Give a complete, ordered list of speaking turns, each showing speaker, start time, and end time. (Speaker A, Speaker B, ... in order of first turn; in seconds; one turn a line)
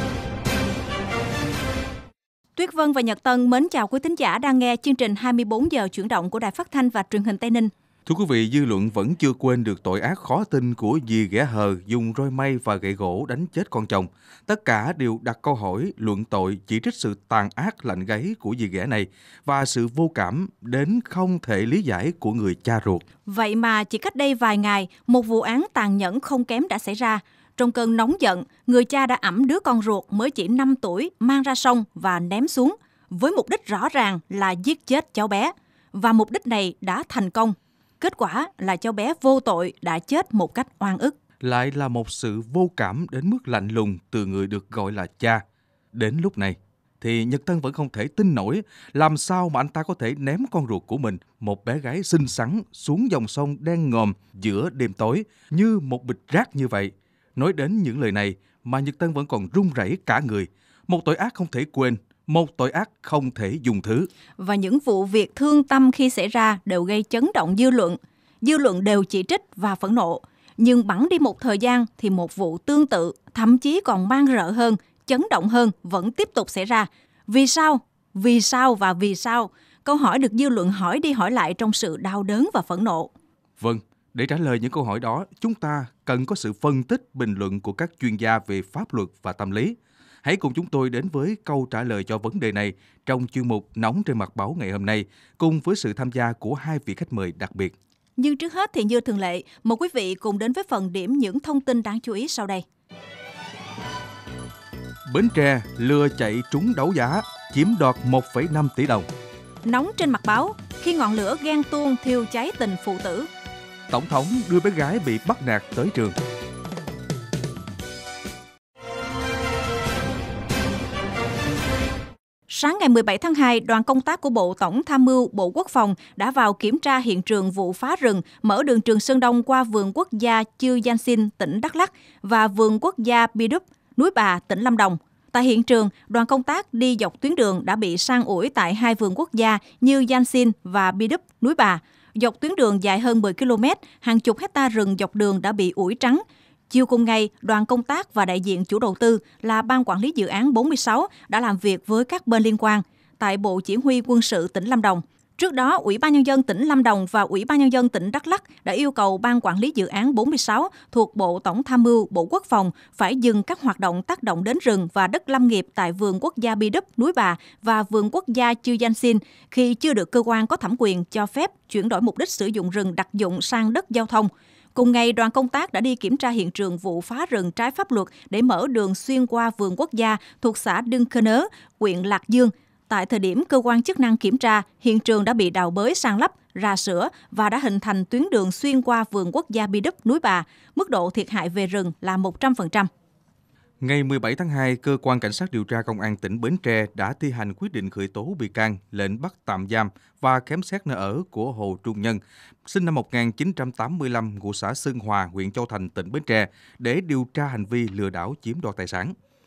Speaker A: 2.5-7.7
Speaker B: 8.1-23.0
Speaker A: 23.2-41.1
Speaker B: 41.4-45.4
Speaker B: 45.9-64.1
Speaker A: 64.4-83.1
Speaker B: 83.6-97.7
Speaker A: 98.2-102.6
Speaker B: 105.1-109.1
Speaker A: 109.6-113.3
Speaker B: 113.9-116.2
Speaker A: 122.5-192.9
Speaker B: 193.8-209.1